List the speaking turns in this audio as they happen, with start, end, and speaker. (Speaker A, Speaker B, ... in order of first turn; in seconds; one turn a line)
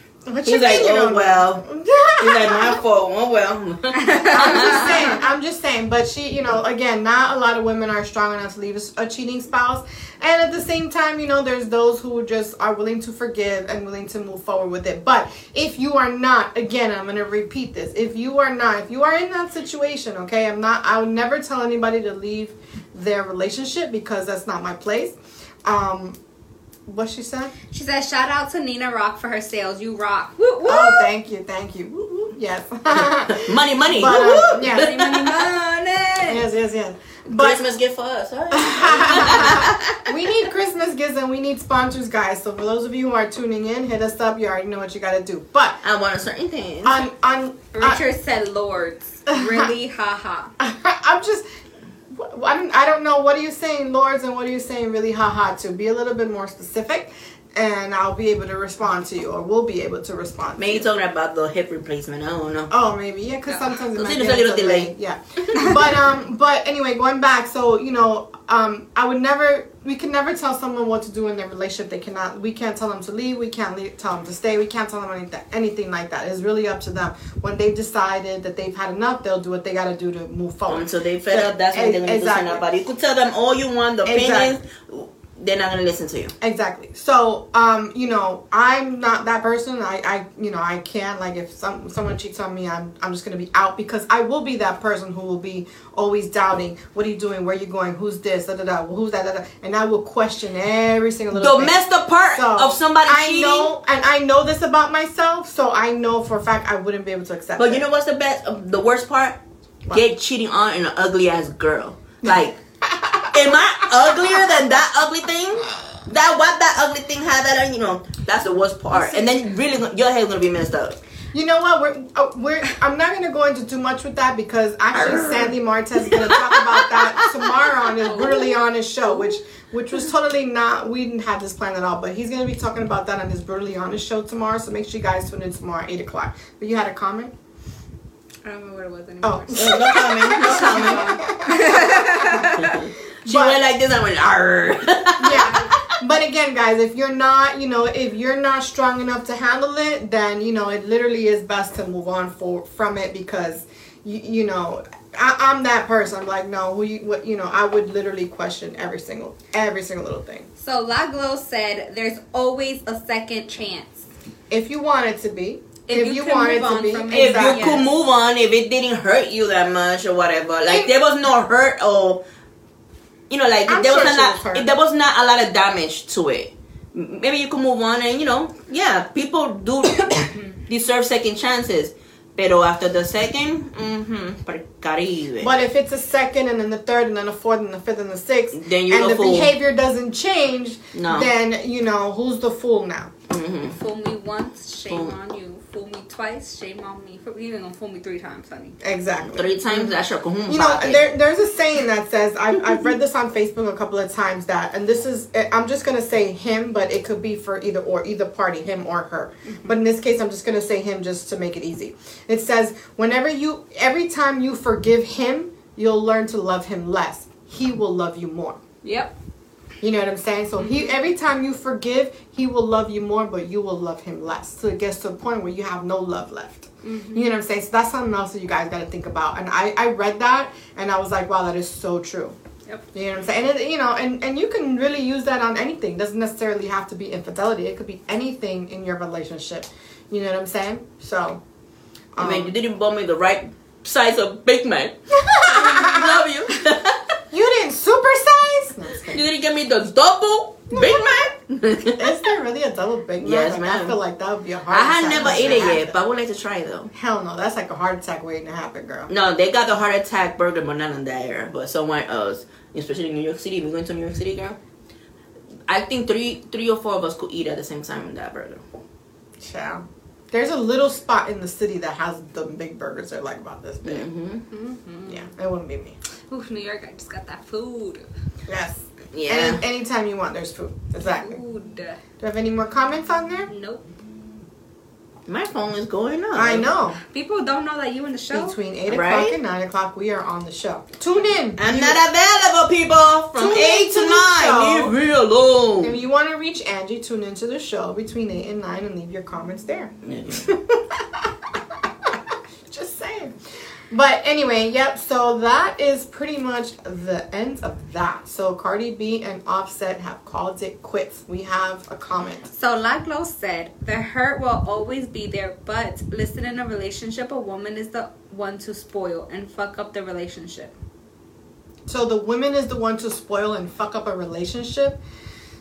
Speaker A: 0.3-2.8
Speaker B: 0.5-1.6
Speaker B: 2.2-5.1
Speaker C: 4.0-5.0
Speaker A: 4.3-25.1
Speaker A: 25.6-26.2
Speaker A: 26.9-27.5
Speaker C: 27.7-31.1
Speaker A: 30.7-34.9
Speaker B: 33.0-35.4
Speaker C: 34.8-36.4
Speaker A: 36.3-37.6
Speaker B: 37.3-40.1
Speaker A: 38.5-45.8
Speaker B: 45.8-47.0
Speaker A: 46.8-48.0
Speaker C: 47.8-50.5
Speaker A: 49.3-49.7
Speaker A: 50.6-51.4
Speaker A: 52.1-60.9
Speaker B: 60.6-62.7
Speaker A: 62.7-82.7
Speaker B: 63.9-64.9
Speaker B: 80.7-86.3
Speaker A: 84.0-84.6
Speaker A: 86.4-107.8
Speaker B: 101.3-103.7
Speaker B: 107.6-109.4
Speaker B: 109.9-112.6
Speaker A: 112.3-114.5
Speaker B: 113.3-121.0
Speaker A: 118.9-119.3
Speaker A: 121.3-137.3
Speaker B: 124.9-127.5
Speaker C: 128.1-128.5
Speaker C: 138.4-142.9
Speaker A: 139.2-142.5
Speaker B: 139.5-141.2
Speaker B: 142.6-145.8
Speaker A: 143.2-143.6
Speaker A: 145.2-160.5
Speaker C: 160.6-164.1
Speaker A: 164.5-167.8
Speaker C: 165.9-167.8
Speaker B: 167.1-172.2
Speaker B: 173.3-185.5
Speaker A: 173.7-174.7
Speaker A: 185.4-193.1
Speaker B: 188.5-189.6
Speaker B: 190.9-191.3
Speaker B: 193.3-193.8
Speaker C: 193.7-198.8
Speaker B: 194.9-195.2
Speaker A: 198.8-200.0
Speaker B: 199.3-201.1
Speaker A: 200.5-218.6
Speaker C: 209.5-209.8
Speaker C: 218.8-219.1
Speaker A: 219.8-232.4
Speaker C: 220.6-220.9
Speaker C: 226.8-227.3
Speaker A: 232.9-241.4
Speaker A: 242.1-242.5
Speaker B: 242.2-247.2
Speaker A: 245.2-246.2
Speaker A: 247.3-249.2
Speaker B: 249.1-252.2
Speaker A: 250.7-251.2
Speaker A: 252.0-255.9
Speaker B: 253.2-254.0
Speaker B: 254.7-256.9
Speaker A: 256.9-259.1
Speaker B: 259.1-264.6
Speaker B: 265.7-268.6
Speaker A: 269.4-274.1
Speaker B: 273.8-274.4
Speaker C: 274.5-275.3
Speaker A: 275.1-276.0
Speaker C: 276.3-278.1
Speaker A: 278.5-281.4
Speaker B: 279.1-279.6
Speaker C: 281.0-282.0
Speaker A: 282.2-283.5
Speaker C: 283.5-283.9
Speaker B: 285.3-286.7
Speaker A: 286.3-287.0
Speaker C: 287.0-288.6
Speaker A: 288.3-292.0
Speaker B: 288.9-289.4
Speaker B: 291.6-296.0
Speaker A: 293.4-294.9
Speaker A: 295.8-301.2
Speaker B: 300.0-300.5
Speaker A: 302.6-303.4
Speaker A: 303.9-312.5
Speaker C: 312.5-320.7
Speaker A: 321.9-325.0